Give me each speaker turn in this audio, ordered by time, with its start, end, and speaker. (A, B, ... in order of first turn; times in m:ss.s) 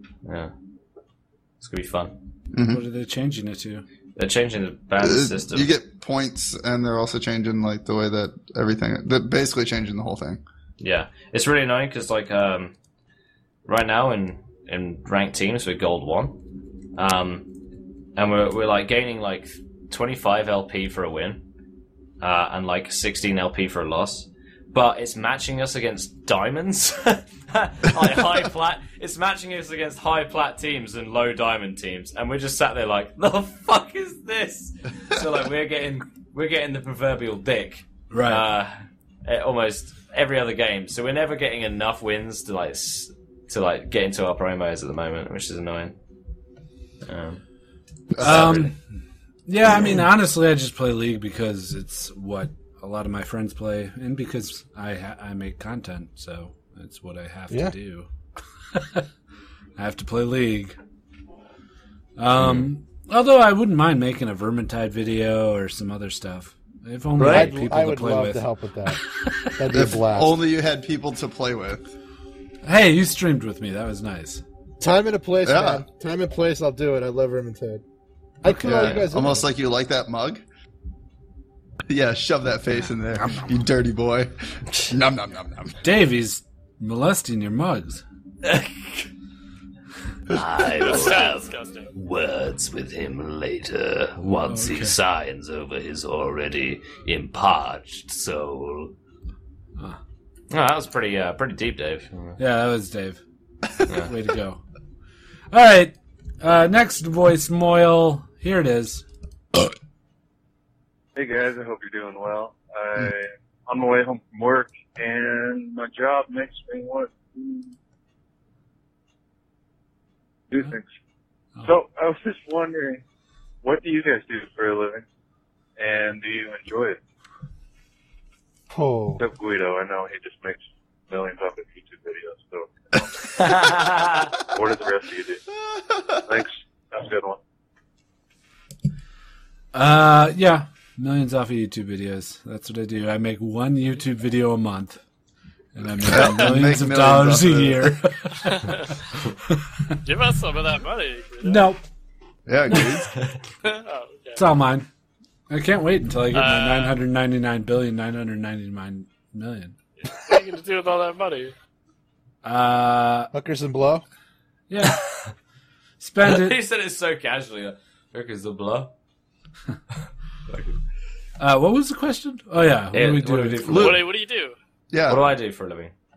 0:00.2-0:00.5 A
0:01.6-0:02.2 A
0:02.5-0:02.8 B
0:02.7-0:03.8 C
0:04.2-0:05.7 A
0:05.0-0:10.4 B
0:10.8-0:12.7 A
0:13.6-0:16.4 A
0:17.0-0:17.5 A
0:18.2-0:21.4 A
0:22.2-0:38.7 A
0:38.1-0:38.4 C
0:39.2-0:45.9 A
0:47.0-0:47.4 A
0:48.1-0:48.7 B
0:48.2-0:48.7 C
0:48.2-0:48.6 A
0:49.5-0:58.1 C
0:58.7-0:59.0 C
0:59.8-1:00.8 C
1:02.2-1:08.4 C
1:02.4-1:02.7 A
1:07.2-1:07.5 A
1:07.2-1:09.0 D
1:09.6-1:10.3 D
1:09.7-1:11.9 B
1:12.6-1:14.4 C
1:14.8-1:17.8 D
1:15.4-1:15.8 B
1:18.4-1:19.4 D
1:18.4-1:19.0 C
1:18.6-1:20.4 B
1:21.9-1:24.3 B
1:22.7-1:23.7 C
1:24.9-1:25.9 B
1:25.8-1:28.0 C
1:30.3-1:38.9 E
1:30.8-1:31.9 F
1:34.2-1:35.0 C
1:40.5-1:42.4 A
1:42.4-1:43.2 C
1:44.0-1:44.6 C
1:45.5-1:49.0 C
1:51.1-1:57.7 G
2:00.5-2:00.9 G
2:01.6-2:03.0 G
2:03.6-2:05.0 G
2:05.8-2:07.0 G
2:08.7-2:09.2 D
2:09.2-2:13.0 G
2:13.3-2:14.3 A
2:14.5-2:15.4 G
2:15.7-2:16.2 B
2:16.2-2:17.4 G
2:19.7-2:25.0 C
2:25.7-2:28.6 C
2:26.0-2:28.0 B
2:26.2-2:26.5 F
2:28.5-2:28.9 F
2:29.5-2:29.9 C
2:30.0-2:31.8 F
2:31.4-2:31.8 C
2:32.5-2:33.1 B
2:33.6-2:34.4 F
2:34.4-2:34.9 C
2:35.5-2:39.7 C
2:36.3-2:37.0 F
2:40.0-2:41.5 F
2:42.4-2:43.3 C
2:43.3-2:44.0 D
2:44.7-2:45.0 C
2:46.0-2:46.6 C
2:46.2-2:48.9 A
2:50.5-2:50.8 A
2:51.4-2:54.0 C
2:52.9-2:54.1 A
2:53.7-2:54.6 F
2:54.9-2:55.2 B
2:55.1-2:55.9 A